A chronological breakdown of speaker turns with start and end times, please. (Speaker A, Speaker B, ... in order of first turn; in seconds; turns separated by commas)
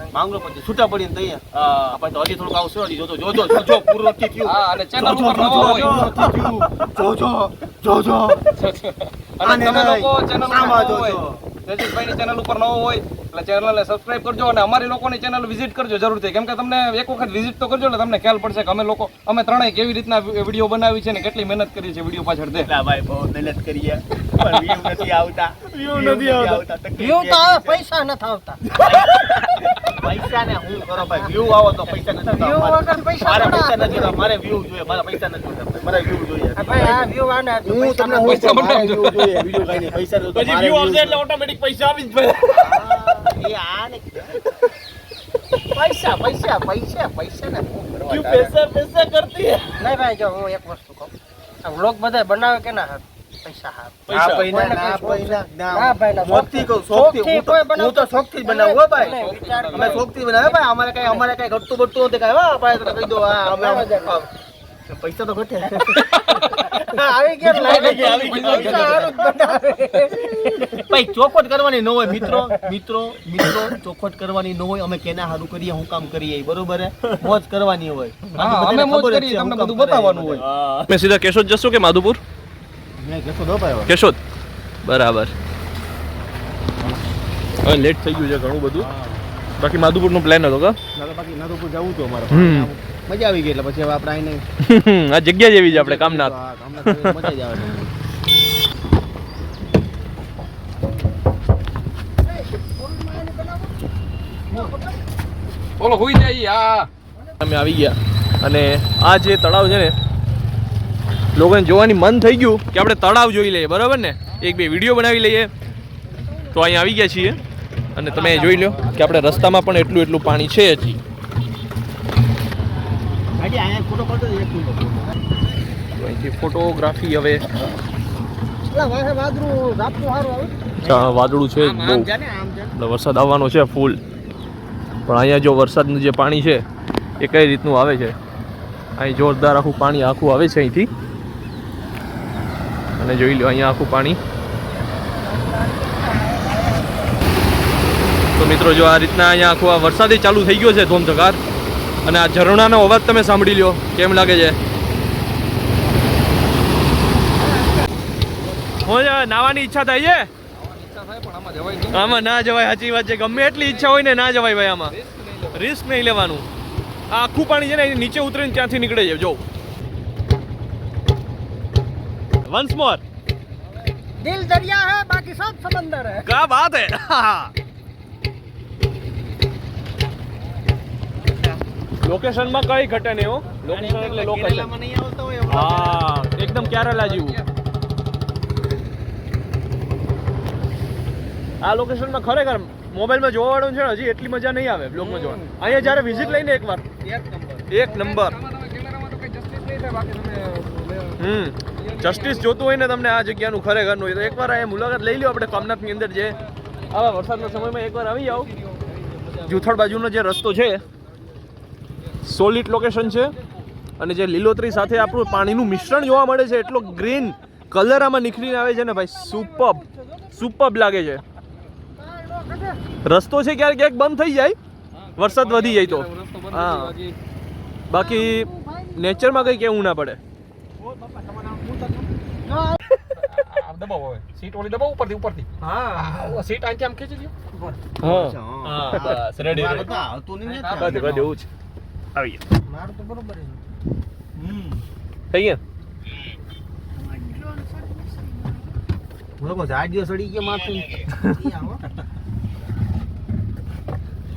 Speaker A: 0.1-8.6, Speaker B: 1.5-2.0, Speaker C: 4.4-5.9, Speaker B: 5.3-6.7, Speaker C: 8.5-22.7, Speaker A: 9.4-11.4, Speaker A: 22.6-27.8, Speaker B: 25.7-26.6, Speaker D: 27.0-28.6, Speaker A: 28.8-41.2, Speaker B: 29.0-29.5, Speaker D: 32.2-34.2, Speaker D: 36.6-38.7, Speaker C: 38.2-39.5, Speaker B: 40.3-43.0, Speaker A: 42.5-44.4, Speaker A: 45.7-48.6, Speaker B: 48.1-49.7, Speaker D: 49.8-51.1, Speaker D: 51.6-61.2, Speaker B: 54.1-54.5, Speaker A: 54.1-64.3, Speaker C: 58.9-60.1, Speaker D: 63.5-64.1, Speaker A: 64.9-66.1, Speaker D: 66.6-70.9, Speaker A: 67.4-69.5, Speaker C: 67.5-69.2, Speaker A: 70.8-80.5, Speaker C: 78.4-80.4, Speaker B: 80.4-82.2, Speaker A: 83.0-83.9, Speaker B: 83.9-84.2, Speaker B: 84.8-85.3, Speaker B: 87.6-88.9, Speaker A: 88.8-89.2, Speaker B: 89.6-90.8, Speaker A: 91.0-94.5, Speaker B: 92.3-92.7, Speaker B: 94.6-97.3, Speaker A: 95.7-97.9, Speaker D: 102.6-103.8, Speaker D: 104.5-105.0, Speaker C: 105.8-106.9, Speaker B: 107.4-110.0, Speaker B: 111.4-115.5, Speaker B: 116.5-117.4, Speaker B: 118.0-121.0, Speaker A: 118.1-119.0, Speaker C: 118.5-118.8, Speaker A: 123.3-125.2, Speaker B: 126.0-127.5, Speaker D: 128.7-130.6, Speaker B: 130.8-132.1, Speaker A: 130.8-132.7, Speaker B: 132.7-134.0, Speaker B: 135.1-136.7, Speaker B: 137.2-138.2, Speaker B: 139.0-140.9, Speaker B: 143.0-144.2, Speaker D: 145.0-147.2, Speaker B: 148.4-151.4, Speaker B: 152.1-154.6, Speaker B: 158.8-160.3, Speaker C: 160.5-162.2, Speaker B: 161.9-164.9, Speaker C: 163.5-164.1, Speaker C: 164.9-165.7, Speaker B: 165.5-166.5, Speaker B: 167.1-169.4, Speaker B: 172.4-173.0, Speaker D: 174.2-176.3, Speaker B: 176.2-177.5, Speaker B: 182.0-184.7, Speaker A: 183.6-187.4, Speaker B: 185.5-187.4, Speaker B: 191.6-196.8, Speaker C: 194.9-195.5, Speaker A: 195.6-197.7, Speaker B: 197.7-198.4, Speaker C: 197.8-202.6, Speaker B: 201.2-206.4, Speaker B: 206.9-208.5, Speaker C: 207.2-207.7, Speaker C: 208.3-209.8, Speaker B: 209.4-210.8, Speaker B: 212.2-213.3, Speaker B: 214.0-221.2, Speaker D: 214.7-216.9, Speaker D: 218.2-220.5, Speaker D: 221.9-222.8, Speaker B: 223.1-224.6, Speaker C: 224.9-227.2, Speaker B: 225.2-226.9, Speaker B: 227.9-230.2, Speaker D: 227.9-229.8, Speaker A: 230.8-232.1, Speaker D: 232.4-232.8, Speaker C: 233.1-237.3, Speaker D: 235.6-236.0, Speaker D: 237.5-237.8, Speaker B: 238.0-239.9, Speaker A: 238.0-241.3, Speaker C: 240.5-241.2, Speaker B: 240.8-241.4, Speaker B: 242.2-242.4, Speaker D: 242.7-243.6, Speaker B: 244.4-244.8, Speaker B: 245.3-245.6, Speaker A: 249.4-251.4, Speaker D: 251.3-251.8